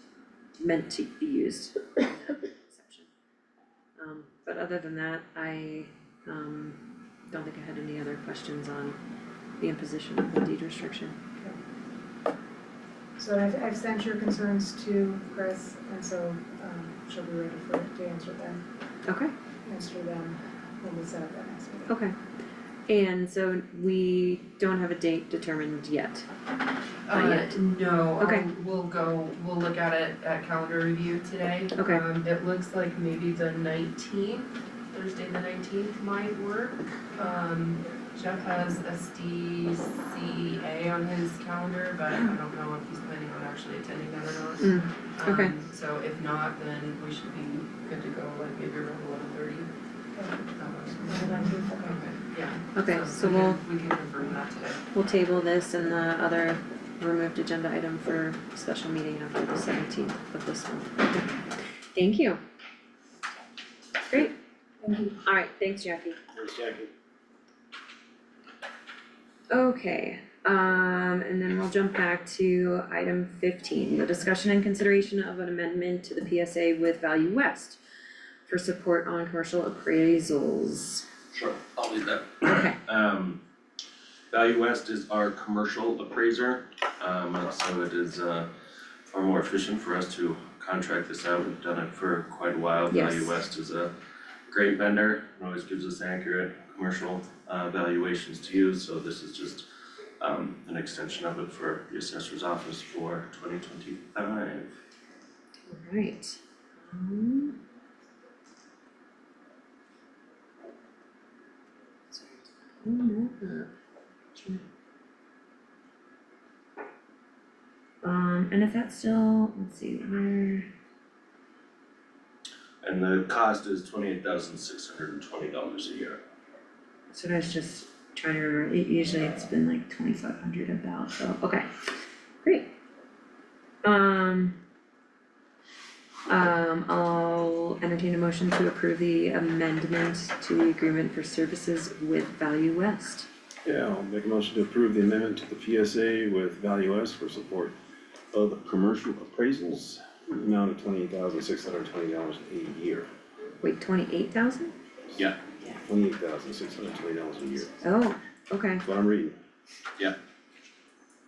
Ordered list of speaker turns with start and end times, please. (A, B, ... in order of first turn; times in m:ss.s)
0:00.6-0:03.1 A
0:04.0-0:09.0 A
0:09.6-0:11.2 A
0:13.2-0:18.6 B
0:19.0-0:19.3 A
0:19.6-0:22.0 B
0:21.9-0:22.2 A
0:22.9-0:26.3 A
0:27.1-0:49.7 C
0:27.1-0:27.5 A
0:28.2-0:28.5 A
0:31.7-0:32.0 A
0:44.6-0:45.6 A
0:50.2-0:50.5 B
0:50.5-0:54.8 C
0:51.0-0:52.1 B
0:52.7-0:53.6 A
0:54.9-1:02.4 A
1:04.1-1:04.3 A
1:04.8-1:05.1 B
1:05.2-1:06.2 A
1:06.3-1:06.9 D
1:09.5-1:17.8 A
1:18.5-1:21.1 A
1:21.3-1:23.4 E
1:22.4-1:22.8 A
1:24.3-1:28.5 E
1:29.1-1:33.9 E
1:32.9-1:33.4 A
1:34.5-1:39.7 E
1:40.2-1:44.7 E
1:45.7-1:47.6 A
1:52.1-1:53.7 A
1:54.3-1:54.6 A
1:58.0-2:00.7 A
2:02.8-2:06.2 E
2:07.1-2:11.7 A
2:12.4-2:12.7 A
2:13.8-2:14.6 A
2:16.3-2:23.3 A
2:23.6-2:27.7 D
2:28.3-2:33.1 D
2:33.6-2:34.8 A
2:35.8-2:37.8 D
2:37.8-2:38.8 A
2:38.8-2:39.4 D